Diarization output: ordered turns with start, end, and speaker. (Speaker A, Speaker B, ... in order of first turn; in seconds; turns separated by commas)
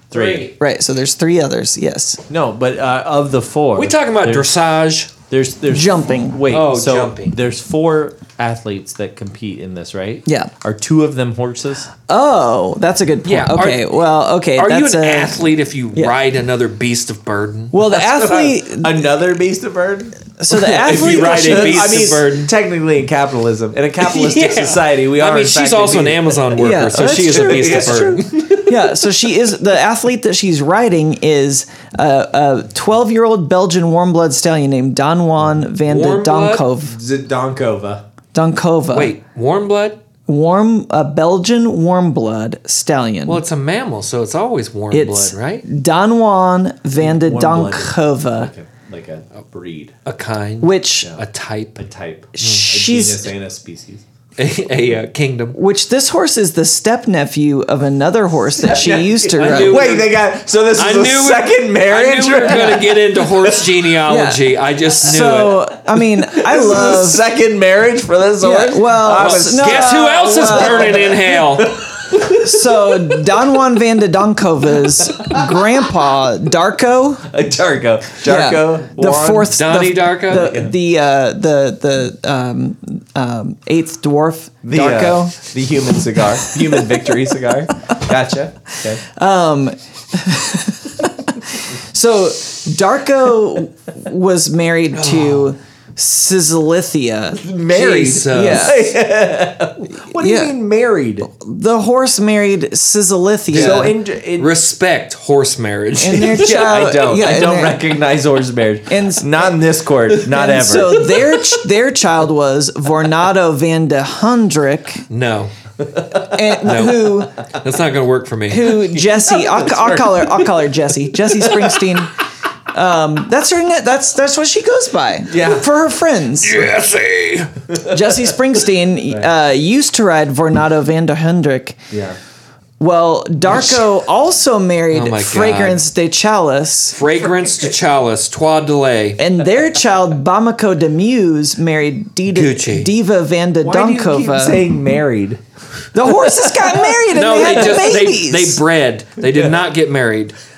Speaker A: 0.1-0.5, Speaker B: 0.1-0.5, Speaker C: 0.6-2.2, Speaker A: 2.3-4.5, Speaker B: 3.8-5.1, Speaker A: 5.3-11.9, Speaker C: 5.7-6.4, Speaker B: 6.5-7.4, Speaker C: 10.3-10.5, Speaker C: 12.1-16.1, Speaker B: 13.2-13.9, Speaker B: 14.6-17.7, Speaker C: 17.7-18.9, Speaker A: 17.8-28.7, Speaker C: 20.4-22.0, Speaker B: 20.5-22.5, Speaker B: 24.0-28.7, Speaker C: 26.6-37.0, Speaker B: 35.8-36.6, Speaker A: 36.9-38.0, Speaker C: 38.3-39.1, Speaker B: 38.9-40.0, Speaker C: 40.3-43.4, Speaker B: 43.3-45.6, Speaker C: 44.9-48.5, Speaker A: 47.0-50.0, Speaker B: 50.0-51.8, Speaker C: 50.6-51.1, Speaker A: 51.8-54.0, Speaker C: 52.4-53.3, Speaker B: 54.4-55.6, Speaker C: 55.5-59.9, Speaker A: 58.6-63.8, Speaker B: 59.4-60.1, Speaker B: 60.8-65.6, Speaker C: 64.1-64.4, Speaker C: 65.0-67.2, Speaker A: 66.1-73.4, Speaker C: 68.4-71.0, Speaker B: 69.1-71.7, Speaker C: 72.3-77.3, Speaker A: 75.0-75.7, Speaker A: 77.3-79.5, Speaker C: 78.2-85.4, Speaker B: 79.5-80.5, Speaker A: 80.3-80.7, Speaker A: 84.6-89.0, Speaker C: 89.0-97.5, Speaker B: 94.9-95.5, Speaker A: 97.4-101.3, Speaker B: 97.7-98.8, Speaker C: 98.2-98.8, Speaker C: 100.2-100.5, Speaker C: 101.2-103.9, Speaker B: 103.5-106.6, Speaker A: 103.5-104.5, Speaker C: 106.0-107.9, Speaker A: 106.1-111.0, Speaker C: 108.9-109.3, Speaker C: 110.2-115.0, Speaker B: 115.1-115.5, Speaker C: 116.2-117.3, Speaker B: 116.6-118.8, Speaker C: 118.5-122.1, Speaker A: 118.9-120.5, Speaker A: 121.2-121.9, Speaker C: 122.7-126.7, Speaker A: 125.3-125.7, Speaker B: 126.4-127.5, Speaker A: 127.8-128.1, Speaker C: 127.8-131.8, Speaker A: 131.9-132.2, Speaker C: 132.8-137.0, Speaker B: 134.9-135.8, Speaker B: 136.9-139.2, Speaker C: 139.2-144.6, Speaker B: 142.3-142.9, Speaker A: 143.6-145.4, Speaker C: 145.9-148.6, Speaker A: 146.1-146.9, Speaker B: 147.1-150.3, Speaker A: 149.2-149.6